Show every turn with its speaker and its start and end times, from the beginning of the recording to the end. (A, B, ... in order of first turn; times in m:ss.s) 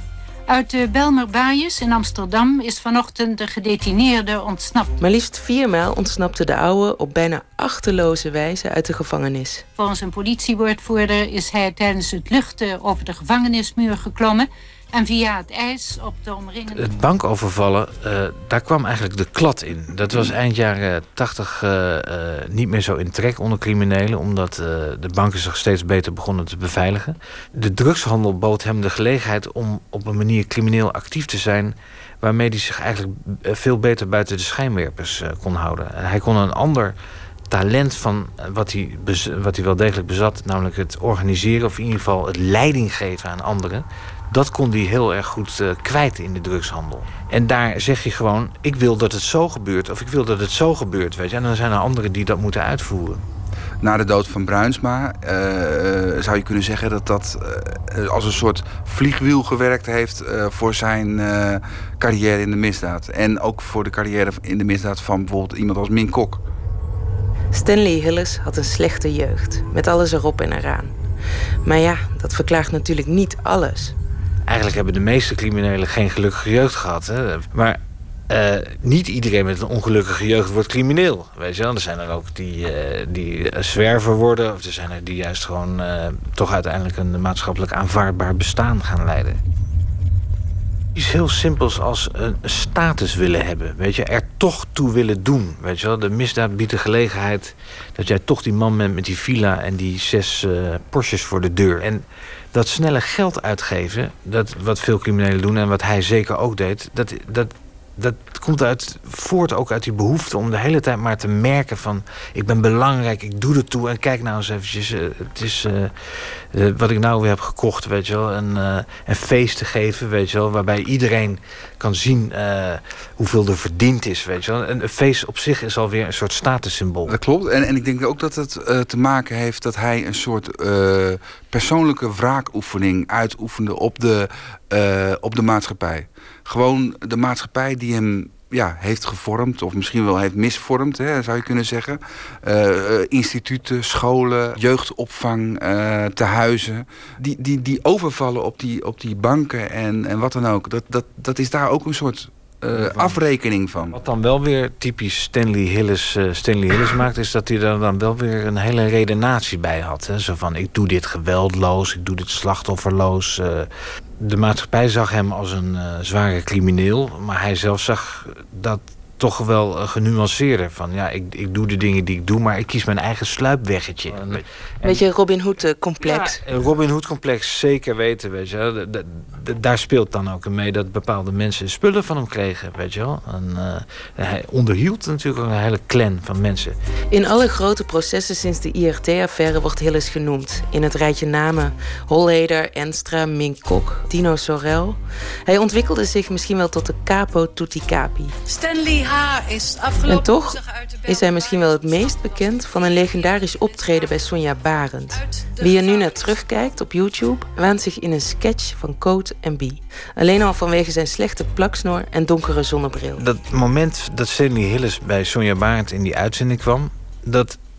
0:00.5-0:04.9 A
0:05.0-0:09.6 B
0:09.8-0:16.9 A
0:16.7-0:36.9 C
0:37.5-0:53.2 C
0:53.8-1:06.4 D
1:07.5-1:10.9 B
1:11.6-1:13.9 B
1:14.4-1:29.4 C
1:30.9-1:55.9 C
1:56.5-2:07.2 C
2:07.1-2:34.0 D
2:32.7-2:33.2 C
2:33.9-2:43.7 C
2:44.2-2:55.0 C
2:54.8-2:56.4 B
2:56.0-3:06.8 C
3:07.1-3:18.3 B
3:18.5-3:21.6 E
3:20.0-3:33.2 B
3:33.2-3:37.6 C